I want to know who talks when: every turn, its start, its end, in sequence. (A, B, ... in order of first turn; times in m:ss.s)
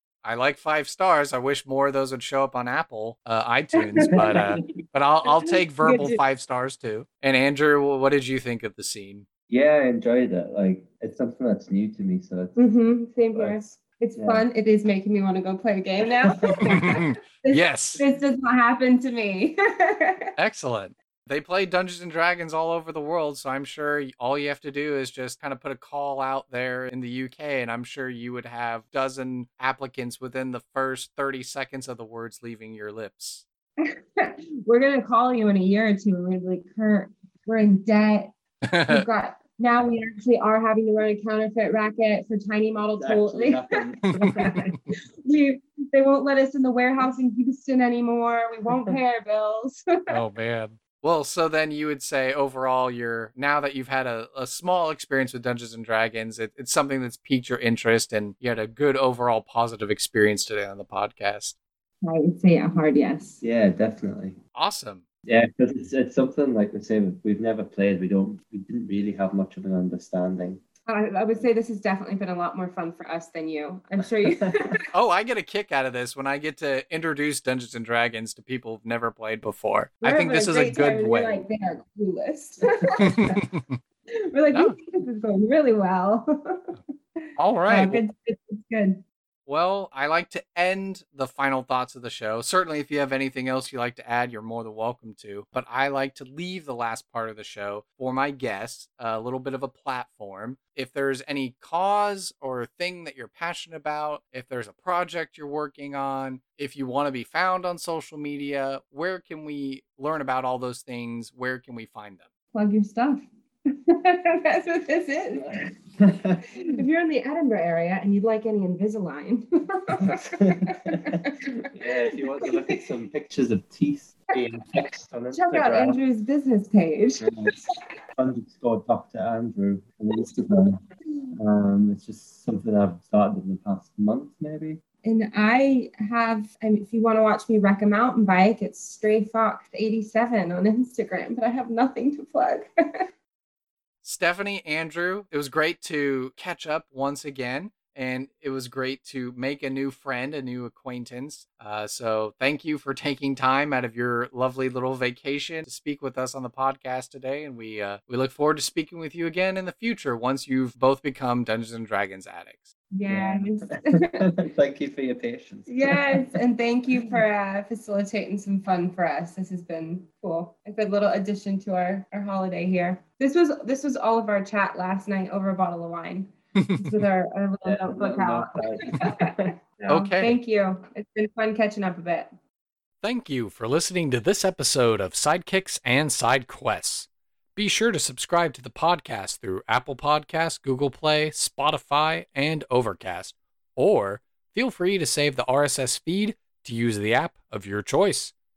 0:00.2-0:09.3 A
0:03.8-0:04.7 B
0:04.2-0:04.7 C
0:05.4-0:06.2 B
0:09.5-0:12.6 C
0:12.6-0:20.3 B
0:13.3-0:14.4 C
0:16.3-0:16.8 C
0:16.7-0:18.0 A
0:20.4-0:33.4 A
0:33.8-0:50.2 B
0:38.6-0:39.0 A
0:43.0-0:44.6 C
0:44.1-0:44.8 A
0:50.1-1:01.6 A
1:02.0-1:03.4 B
1:03.4-1:04.4 C
1:04.6-1:05.0 A
1:05.3-1:10.6 C
1:10.9-1:14.8 B
1:14.3-1:14.6 C
1:14.9-1:21.4 A
1:20.0-1:23.4 B
1:23.0-1:23.8 A
1:24.2-1:29.0 B
1:27.4-1:28.0 A
1:29.5-1:52.3 A
1:52.5-1:55.7 B
1:56.0-1:56.5 C
1:56.5-2:02.8 B
2:00.0-2:06.0 C
2:05.3-2:07.5 B
2:07.2-2:07.6 C
2:08.2-2:10.8 C
2:11.3-2:14.8 C
2:15.0-2:22.7 B
2:24.0-2:42.7 A
2:42.9-2:44.3 B
2:43.1-2:46.3 C
2:45.7-2:59.5 B
2:56.6-2:57.0 A
2:57.6-3:00.1 C
2:59.9-3:00.4 A
3:00.1-3:02.3 B
3:03.0-3:18.3 A